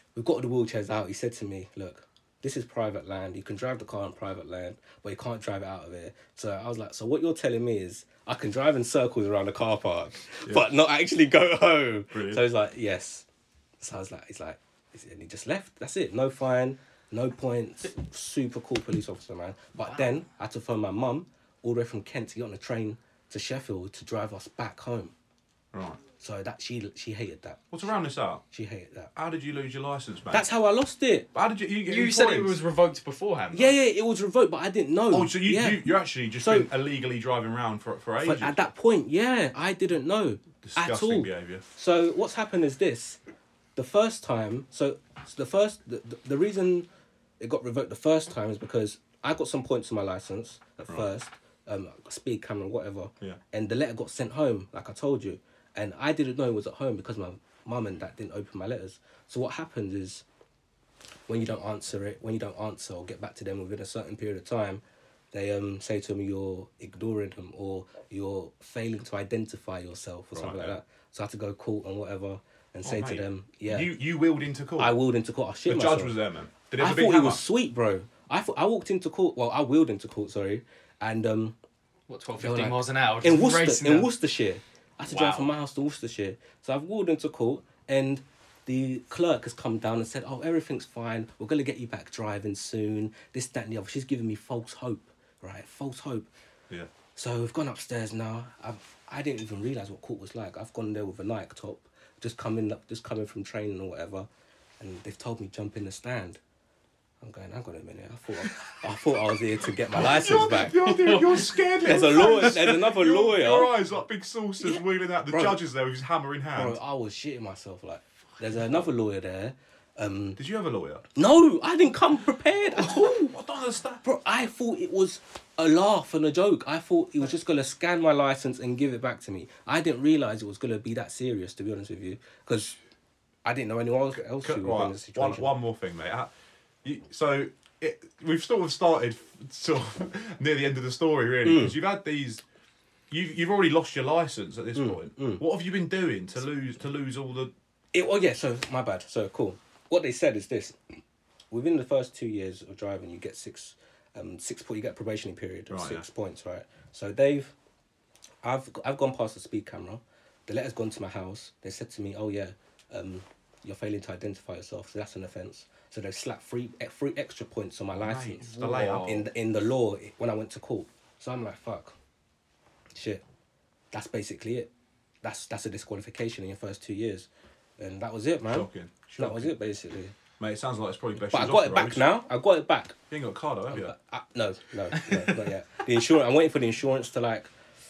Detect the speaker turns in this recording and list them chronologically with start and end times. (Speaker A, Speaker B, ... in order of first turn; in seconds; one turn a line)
Speaker A: 0.1-13.2
Speaker B: 12.1-12.4
Speaker A: 13.8-25.1
Speaker B: 25.7-26.0
Speaker A: 26.2-27.7
Speaker B: 27.7-28.4
Speaker A: 28.5-29.1
Speaker B: 29.1-30.4
Speaker A: 30.3-31.3
Speaker B: 31.3-32.6
Speaker C: 31.8-33.8
Speaker A: 33.5-36.7
Speaker B: 35.1-38.5
Speaker A: 38.2-43.2
Speaker B: 40.6-41.6
Speaker A: 43.8-46.9
Speaker A: 47.4-60.2
Speaker A: 61.3-64.8
Speaker A: 65.3-73.9
Speaker B: 70.3-70.8
Speaker B: 72.8-75.0
Speaker A: 74.8-76.2
Speaker B: 75.7-77.4
Speaker A: 76.8-81.6
Speaker C: 82.1-84.1
Speaker A: 82.4-96.3
Speaker C: 85.1-85.5
Speaker A: 97.1-104.3
Speaker A: 104.8-106.4
Speaker A: 107.2-110.9
Speaker B: 109.9-116.8
Speaker C: 110.8-111.5
Speaker A: 111.8-113.7
Speaker A: 114.6-115.6
Speaker A: 116.5-120.4
Speaker B: 120.4-121.0
Speaker A: 121.1-123.3
Speaker B: 122.8-124.0
Speaker A: 124.0-132.8
Speaker A: 133.4-135.5
Speaker B: 134.3-136.3
Speaker B: 136.8-142.4
Speaker A: 141.4-141.8
Speaker B: 143.1-147.5
Speaker A: 144.8-145.4
Speaker A: 147.9-150.9
Speaker A: 151.5-157.5
Speaker B: 155.7-156.0
Speaker A: 158.4-171.9
Speaker B: 167.9-169.2
Speaker C: 168.4-169.3
Speaker A: 172.9-173.2
Speaker A: 173.9-174.7
Speaker A: 175.2-177.3
Speaker A: 177.8-180.1
Speaker B: 178.5-179.5
Speaker B: 180.4-182.1
Speaker A: 181.2-183.0
Speaker B: 183.1-183.9
Speaker A: 183.7-187.5